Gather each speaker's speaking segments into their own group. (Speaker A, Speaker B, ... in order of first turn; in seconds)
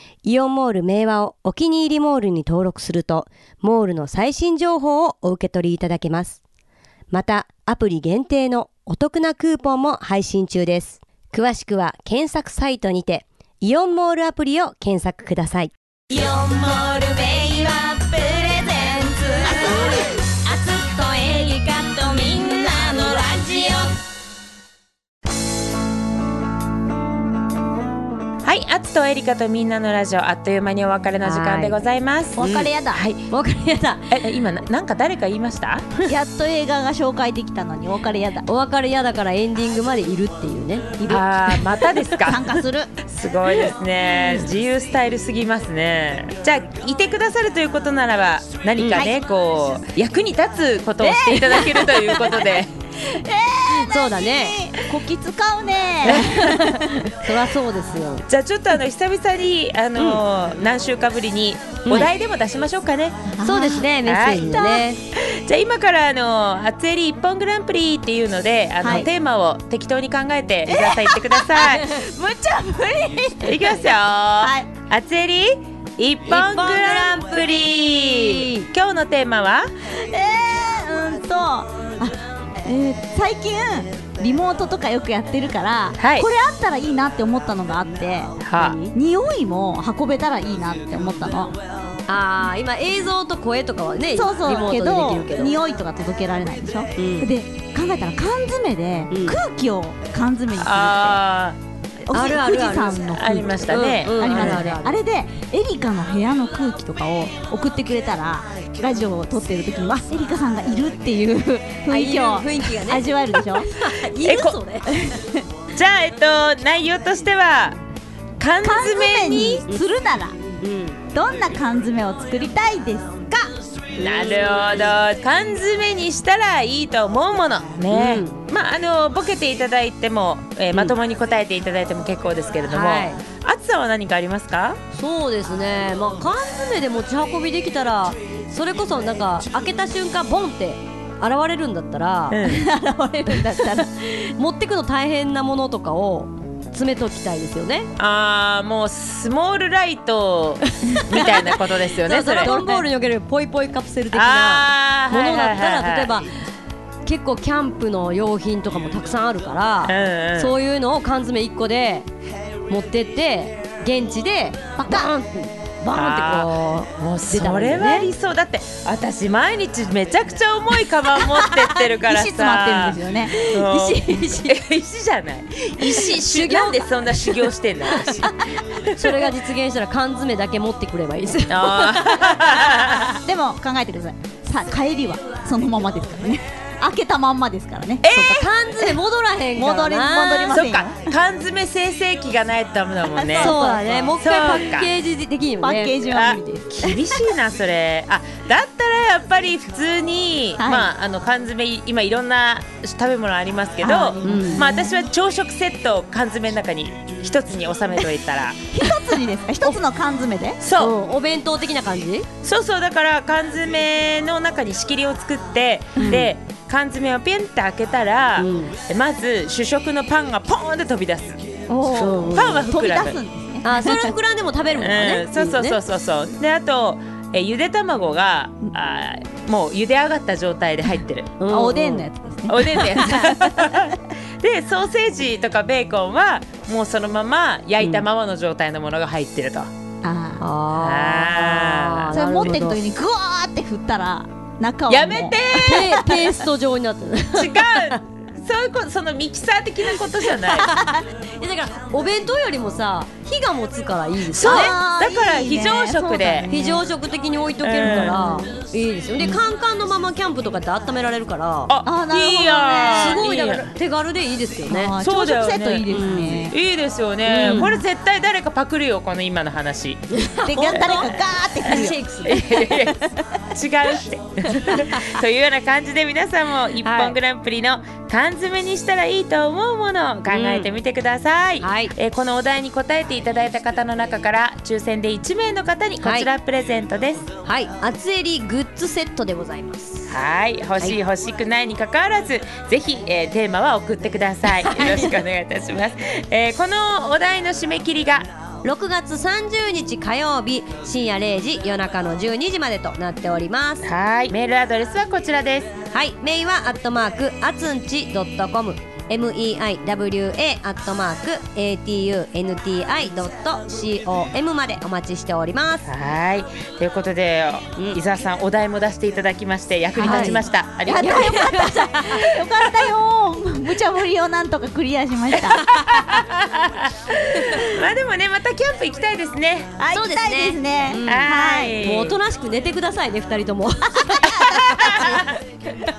Speaker A: 0.2-6.4, 7.1-15.7, 31.2-31.8, 32.4-32.7, 33.3-34.2, 38.5-41.8, 48.8-49.1, 53.7-54.5, 56.0-58.2, 63.4-65.0, 76.3-77.1, 78.2-78.7, 88.6-88.9, 92.1-95.6, 97.0-97.3, 99.1-99.4, 102.1-103.0, 103.7-105.0, 111.9-115.0, 120.5-121.0, 124.0-124.9, 127.9-128.4, 132.7-133.2, 134.9-142.4, 143.5-147.9, 152.0-156.3, 157.0-162.1, 162.7-168.1, 173.3-174.6, 175.8-177.3, 177.9-178.2, 179.0-182.3, 188.1-190.6, 193.4-196.0, 203.9-204.6, 210.8-212.3, 216.0-216.2, 218.4-218.7, 221.9-222.7, 223.6-225.8, 231.4-232.1, 240.4-242.8, 245.6-248.0, 250.6-254.7, 256.5-261.7, 262.7-264.9, 265.9-266.4, 267.3-267.8, 270.1-272.8, 274.6-275.0, 276.8-277.1, 280.3-280.7, 281.6-281.9, 286.0-286.3, 287.4-290.1, 294.6-295.2, 298.6-303.9, 305.9-315.9, 320.0-322.3, 329.9-331.3, 331.8-335.2
Speaker B: 16.1-24.0
Speaker C: 28.4-33.2, 34.1-35.9, 41.1-42.5, 43.0-52.7, 58.3-63.3, 64.0-72.0, 73.4-79.7, 86.0-86.3, 88.4-88.8, 100.6-101.6, 103.1-104.7, 114.2-114.6, 115.7-117.8, 118.4-119.6, 124.0-134.8, 142.3-142.6, 148.0-152.5, 154.1-156.1, 159.8-160.5, 165.9-178.3, 181.5-183.2, 188.0-188.5, 190.5-193.6, 194.2-194.9, 196.1-208.7, 210.6-210.9, 212.4-221.4, 222.3-223.2, 224.7-231.3, 232.5-239.7, 240.7-242.1, 244.9-245.9, 247.3-250.7, 254.3-256.5, 257.6-258.4, 261.7-263.7, 265.0-270.0, 271.7-273.0, 273.5-287.2, 290.1-298.3, 303.8-305.7, 315.8-321.6, 325.7-329.7, 331.0-332.2, 334.4-335.4
Speaker D: 32.4-33.0, 36.1-38.5, 42.2-42.9, 51.0-57.0, 63.3-63.9, 64.5-64.9, 68.8-69.1, 70.7-73.8, 74.4-74.7, 79.9-88.4, 88.9-91.5, 94.2-101.2, 102.1-113.7, 114.9-115.4, 118.6-120.4, 121.1-123.5, 142.4-143.9, 152.4-152.8, 164.8-165.1, 171.9-173.4, 182.6-188.1, 189.5-191.0, 193.1-194.1, 195.6-197.2, 200.6-200.9, 203.8-204.8, 208.7-210.6, 216.0-216.2, 221.7-224.1, 231.5-233.9, 240.0-240.4, 242.1-246.4, 250.6-251.0, 254.4-256.9, 257.9-258.3, 261.8-263.3, 264.6-266.6, 270.5-272.0, 272.7-273.1, 320.0-325.8, 329.8-331.8, 334.0-335.2